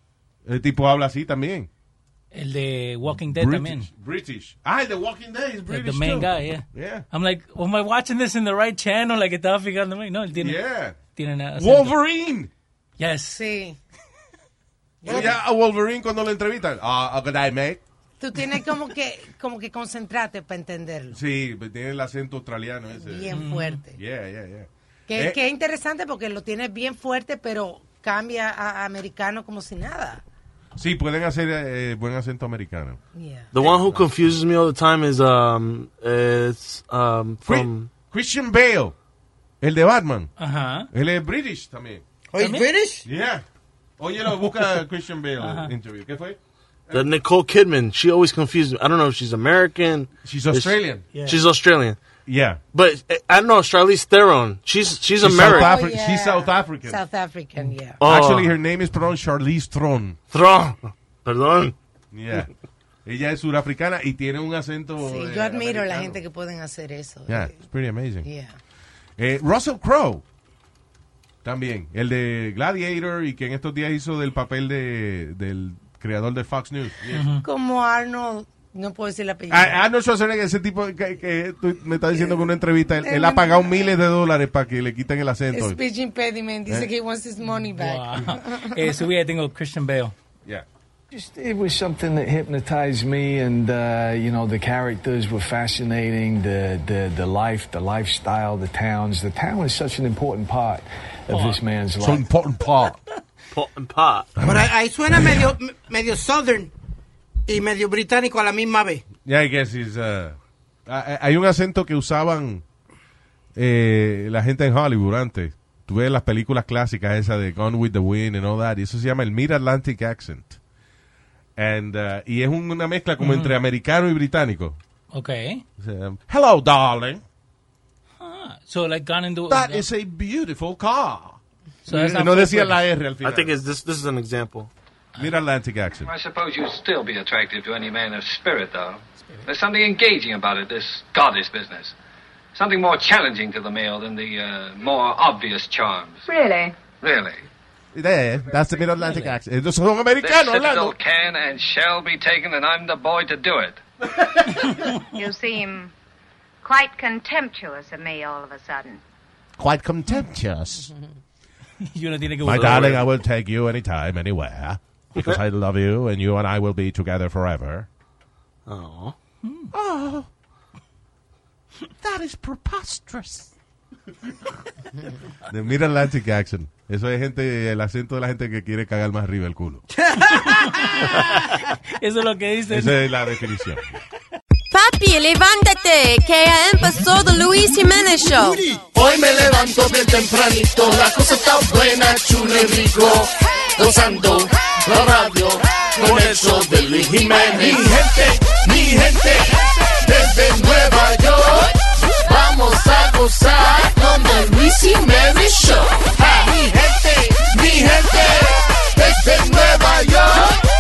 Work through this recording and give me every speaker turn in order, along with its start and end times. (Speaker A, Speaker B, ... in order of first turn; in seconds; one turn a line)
Speaker A: 0.4-1.7
Speaker B: 2.3-3.9
Speaker A: 3.1-7.0
Speaker B: 5.7-12.0
Speaker A: 10.3-11.0
Speaker A: 11.6-12.5
Speaker B: 13.0-13.4
Speaker C: 13.3-13.8
Speaker C: 15.0-15.4
Speaker A: 15.1-17.8
Speaker C: 18.2-21.2
Speaker A: 21.1-23.4
Speaker C: 22.9-24.0
Speaker B: 23.3-23.8
Speaker A: 23.9-25.4
Speaker C: 25.1-30.2
Speaker A: 30.8-33.0
Speaker C: 33.1-33.5
Speaker D: 33.5-37.9
Speaker A: 33.5-34.1
Speaker A: 37.4-38.9
Speaker A: 39.6-40.3
Speaker B: 40.4-40.9
Speaker A: 40.9-42.0
Speaker E: 42.3-43.0
Speaker B: 42.4-42.7
Speaker A: 43.0-43.4
Speaker A: 44.0-47.1
Speaker B: 45.4-45.7
Speaker D: 46.9-52.0
Speaker A: 50.2-51.0
Speaker B: 51.1-51.4
Speaker A: 52.2-52.6
Speaker D: 52.7-55.7
Speaker A: 55.2-57.0
Speaker C: 55.4-58.0
Speaker D: 58.0-58.5
Speaker A: 58.0-60.2
Speaker D: 60.3-61.7
Speaker A: 62.1-62.5
Speaker A: 63.0-66.2
Speaker C: 65.0-67.6
Speaker A: 67.3-68.2
Speaker C: 68.2-68.6
Speaker A: 69.2-70.2
Speaker A: 71.4-77.3
Speaker B: 77.1-77.4
Speaker C: 77.4-79.8
Speaker A: 79.5-85.8
Speaker C: 82.1-82.4
Speaker C: 83.0-83.9
Speaker C: 85.5-88.9
Speaker B: 87.5-90.1
Speaker F: 91.1-102.3
Speaker B: 101.3-101.6
Speaker A: 102.0-103.0
Speaker D: 103.5-104.3
Speaker A: 104.4-104.6
Speaker E: 104.4-106.7
Speaker E: 107.5-109.1
Speaker A: 109.2-112.6
Speaker A: 113.5-120.6
Speaker A: 121.6-124.8
Speaker B: 123.2-123.5
Speaker B: 125.1-125.6
Speaker A: 125.8-127.2
Speaker B: 128.2-129.9
Speaker A: 129.5-133.6
Speaker B: 131.9-132.8
Speaker D: 133.2-134.7
Speaker A: 135.2-136.1
Speaker G: 136.0-141.9
Speaker G: 142.5-146.3
Speaker H: 146.4-146.7
Speaker G: 146.9-147.5
Speaker A: 147.9-151.0
Speaker G: 150.2-153.8
Speaker A: 154.2-154.7
Speaker B: 154.6-155.0
Speaker H: 155.2-155.9
Speaker H: 156.6-159.0
Speaker A: 159.6-160.9
Speaker B: 161.8-163.0
Speaker A: 162.4-167.9
Speaker D: 168.7-169.1
Speaker A: 169.7-170.3
Speaker A: 172.0-173.5
Speaker A: 175.4-179.8
Speaker E: 180.0-180.9
Speaker B: 180.7-181.2
Speaker B: 182.0-183.0
Speaker A: 182.7-183.8
Speaker I: 184.7-188.6
Speaker J: 188.9-210.6